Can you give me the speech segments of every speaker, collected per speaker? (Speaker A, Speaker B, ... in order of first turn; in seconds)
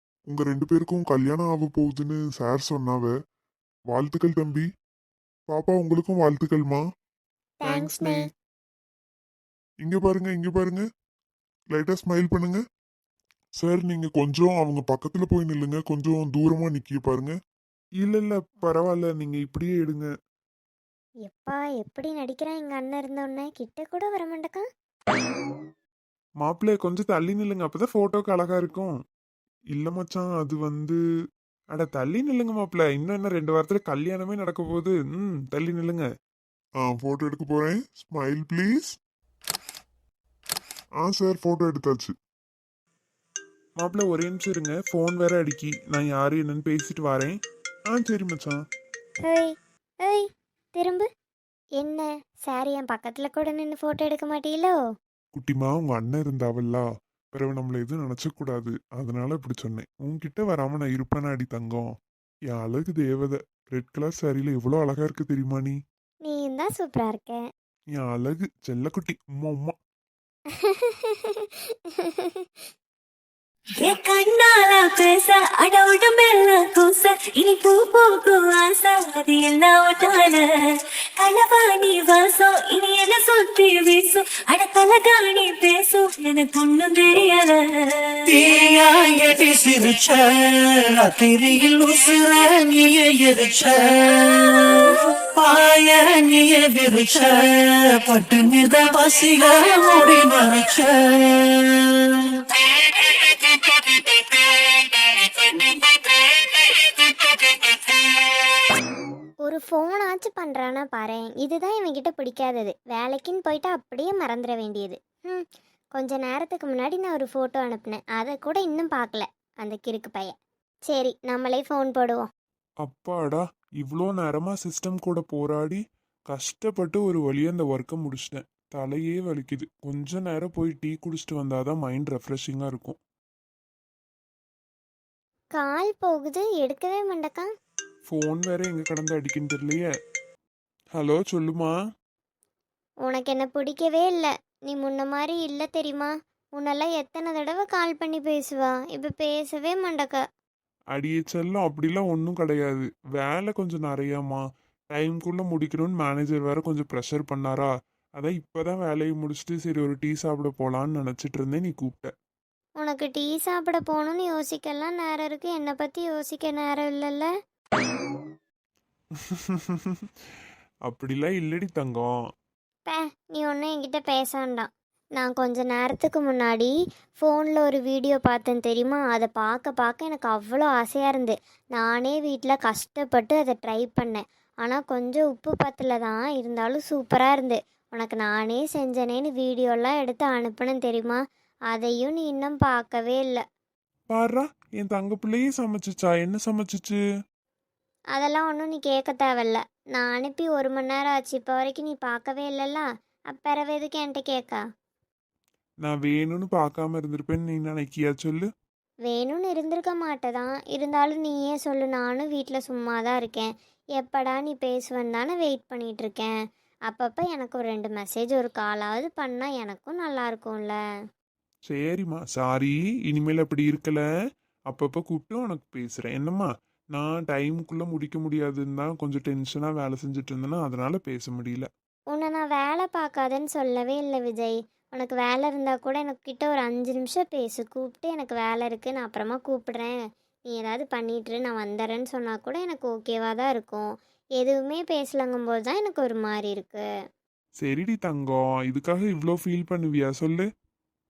Speaker A: 0.3-3.1, 3.9-4.7, 5.5-6.8, 9.8-10.8, 11.7-12.6, 13.6-17.3, 36.8-39.0, 41.0-42.1
Speaker B: 7.6-8.2, 21.3-24.6, 49.2-51.1, 51.8-54.8, 66.2-67.4, 70.6-72.5, 109.4-115.4, 116.0-120.3, 120.9-122.3, 135.6-137.5, 143.1-150.2, 162.8-167.3, 172.9-193.4, 198.1-204.6, 209.1-216.4, 216.9-220.8, 232.1-246.9
Speaker C: 18.0-20.1, 26.4-28.9, 29.7-31.0, 31.7-36.1, 43.8-47.4, 47.9-48.6, 55.3-61.9, 62.5-65.8, 67.9-69.7, 122.8-133.0, 138.1-139.9, 140.9-141.8, 150.9-162.1, 169.4-170.0, 170.9-172.1, 194.1-197.0, 205.8-208.5, 221.7-224.0, 224.7-231.7, 247.6-250.4
Speaker D: 73.8-80.4, 81.2-87.6
Speaker E: 88.8-90.2, 91.0-93.7, 95.4-97.4, 98.0-99.2